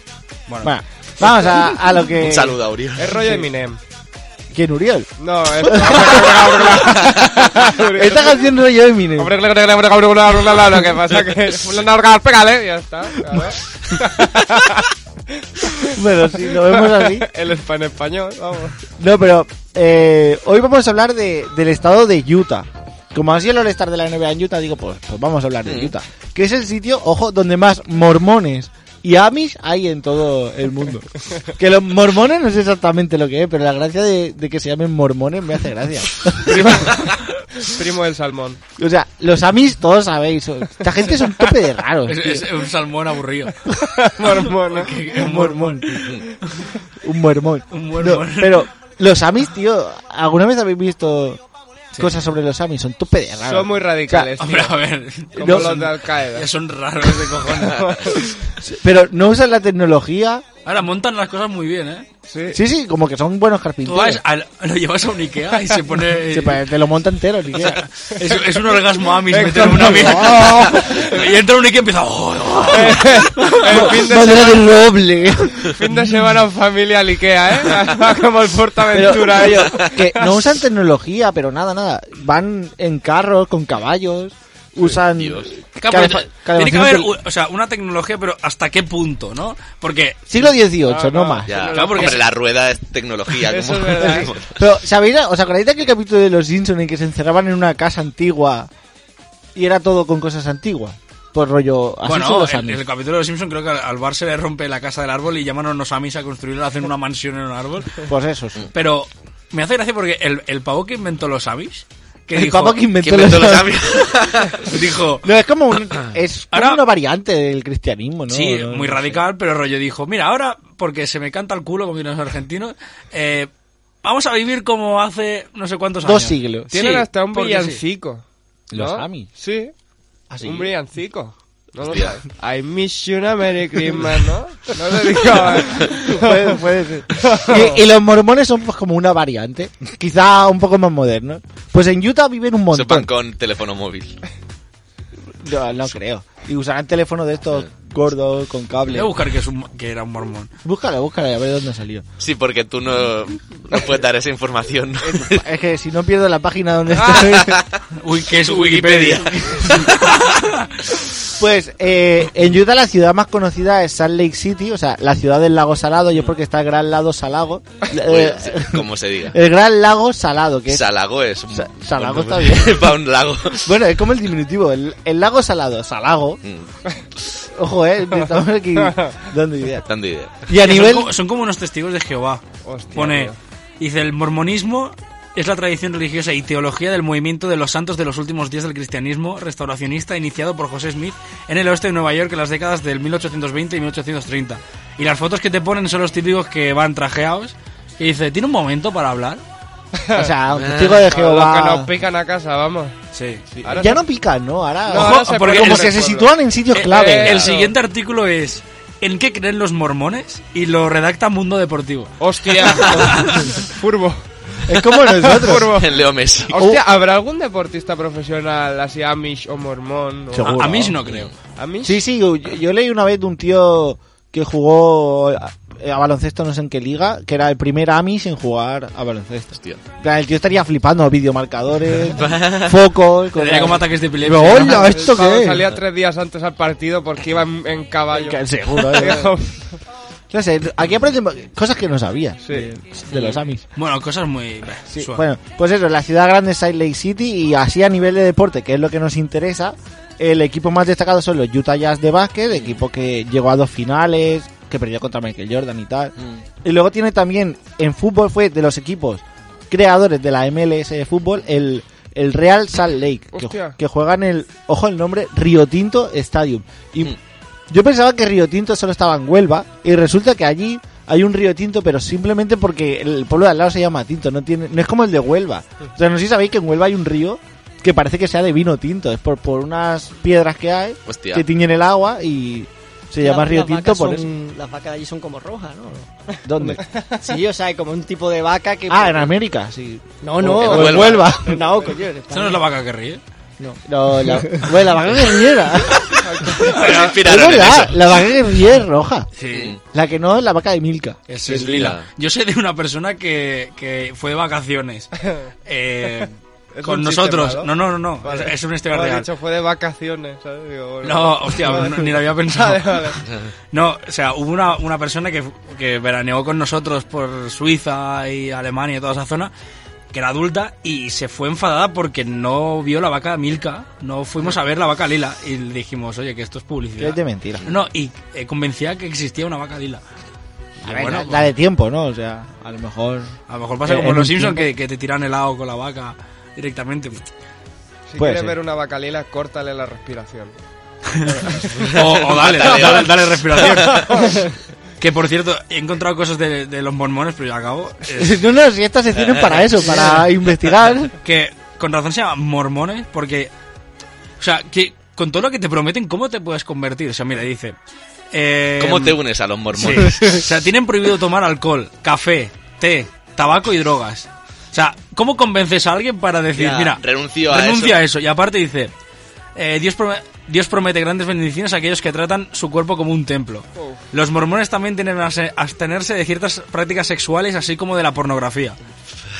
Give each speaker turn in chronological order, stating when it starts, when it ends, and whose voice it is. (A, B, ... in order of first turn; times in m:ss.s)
0:00.6-0:02.6 A
0:02.2-0:03.2 B
0:03.0-0:03.8 C
0:04.5-0:07.2 A
0:05.2-0:08.5 C
0:07.9-0:09.4 A
0:09.2-0:14.8 C
0:15.6-0:18.8 C
0:15.9-0:17.3 A
0:19.0-0:36.9 A
0:25.6-0:25.9 B
0:36.4-0:38.6 C
0:38.8-0:42.5 A
0:42.1-0:43.6 D
0:44.0-0:45.0 C
0:44.7-0:46.0 D
0:45.1-0:46.1 A
0:47.0-0:51.4 A
0:47.7-0:48.6 D
0:52.0-0:54.3 A
0:53.4-0:54.8 C
0:54.4-0:57.8 D
0:55.3-0:56.5 C
0:55.4-0:55.8 A
0:57.6-0:58.3 C
0:58.6-1:00.4 A
1:00.6-1:02.1 D
1:02.3-1:02.6 C
1:02.5-1:04.2 A
1:03.8-1:06.6 D
1:06.3-1:07.8 A
1:08.1-1:13.9 D
1:08.5-1:10.7 C
1:09.5-1:10.9 A
1:12.7-1:14.8 C
1:13.7-1:15.7 A
1:15.7-1:20.4 C
1:18.9-1:27.1 A
1:25.1-1:25.5 B
1:25.8-1:30.3 D
1:30.3-1:31.7 A
1:30.8-1:32.2 C
1:31.5-1:34.5 B
1:31.7-1:32.2 D
1:33.4-1:34.3 C
1:34.0-1:38.7 A
1:39.5-1:42.8 A
1:42.0-1:48.0 D
1:48.0-1:48.6 A
1:48.7-1:52.8 D
1:52.3-1:53.8 A
1:53.0-1:54.6 B
1:54.6-1:55.3 D
1:55.2-1:59.2 A
1:56.5-1:56.8 D
1:58.3-2:03.5 D
2:04.0-2:07.8 D
2:06.0-2:06.7 A
2:06.7-2:09.7 C
2:08.7-2:09.3 A
2:10.3-2:10.7 A
2:10.4-2:16.6 C
2:11.9-2:12.1 B
2:16.1-2:23.1 A
2:17.1-2:17.8 C
2:22.7-2:24.2 B
2:25.4-2:29.1 A
2:28.9-2:30.5 D
2:30.6-2:32.0 A
2:32.2-2:35.4 B
2:35.0-2:37.6 A
2:37.1-2:37.8 B
2:37.9-2:40.8 D
2:38.4-2:40.1 B
2:39.0-2:39.9 A
2:41.4-2:50.8 A
2:48.0-2:49.4 B
2:50.7-2:53.7 B
2:51.5-2:53.0 A
2:53.6-2:56.4 A
2:56.4-2:56.7 B
2:57.5-2:59.8 A
2:58.8-2:59.2 C
2:59.8-3:00.3 B
3:00.4-3:01.1 A
3:00.6-3:19.4 D
3:02.6-3:03.4 C
3:20.0-3:20.3 C
3:20.1-3:21.9 A
3:20.6-3:21.0 B
3:21.0-3:23.0 C
3:23.1-3:23.4 D
3:23.6-3:24.0 C
3:23.6-3:27.4 A
3:24.9-3:26.3 C
3:24.9-3:26.0 D
3:26.7-3:33.5 D
3:26.9-3:27.7 C
3:32.2-3:34.2 C
3:32.9-3:33.4 A
3:34.7-3:35.8 A
3:35.0-3:40.5 C
3:35.7-3:36.6 B
3:36.5-3:36.8 A
3:40.3-3:41.0 A
3:40.4-3:41.3 D
3:41.0-3:41.3 B
3:41.6-3:42.0 C
3:41.8-3:55.7 A
3:52.2-3:52.7 B
3:53.4-3:54.9 D
3:54.5-3:59.8 C
3:58.1-3:59.3 A
4:00.3-4:03.6 A
4:03.1-4:03.4 B
4:03.8-4:05.2 D
4:04.9-4:27.1 A
4:23.3-4:23.8 C
4:27.7-4:44.3 A
4:41.1-4:41.4 B
4:43.2-4:49.3 E
4:46.4-4:46.8 A
4:48.9-4:51.7 A
4:50.2-4:52.6 E
4:50.6-4:51.4 B
4:52.3-4:53.2 D
4:53.6-4:55.1 E
4:53.8-4:56.1 A
4:56.1-4:57.0 C
4:56.7-4:57.1 D
4:56.7-4:58.0 B
4:57.2-4:59.3 A
4:59.4-4:59.7 D
4:59.5-4:59.8 B
4:59.9-5:01.9 A
5:01.3-5:05.1 D
5:01.6-5:02.0 B
5:05.2-5:05.5 C
5:05.6-5:09.3 D
5:06.2-5:13.2 C
5:11.0-5:13.1 D
5:13.7-5:19.5 D
5:20.1-5:30.0 D
5:27.0-5:27.6 A
5:30.8-5:31.5 D
5:30.8-5:34.7 A
5:33.5-5:37.2 D
5:38.1-5:40.5 C
5:38.2-5:38.6 A
5:41.1-5:44.2 D
5:41.2-5:41.9 C
5:42.0-5:43.2 B
5:43.6-5:44.5 C
5:45.0-5:48.4 D
5:48.1-5:51.1 A
5:51.2-5:53.5 D
5:54.4-5:57.8 D
5:58.3-5:59.2 D
5:58.8-6:00.4 B
5:59.7-6:08.9 D
6:06.5-6:08.0 B
6:09.6-6:18.8 D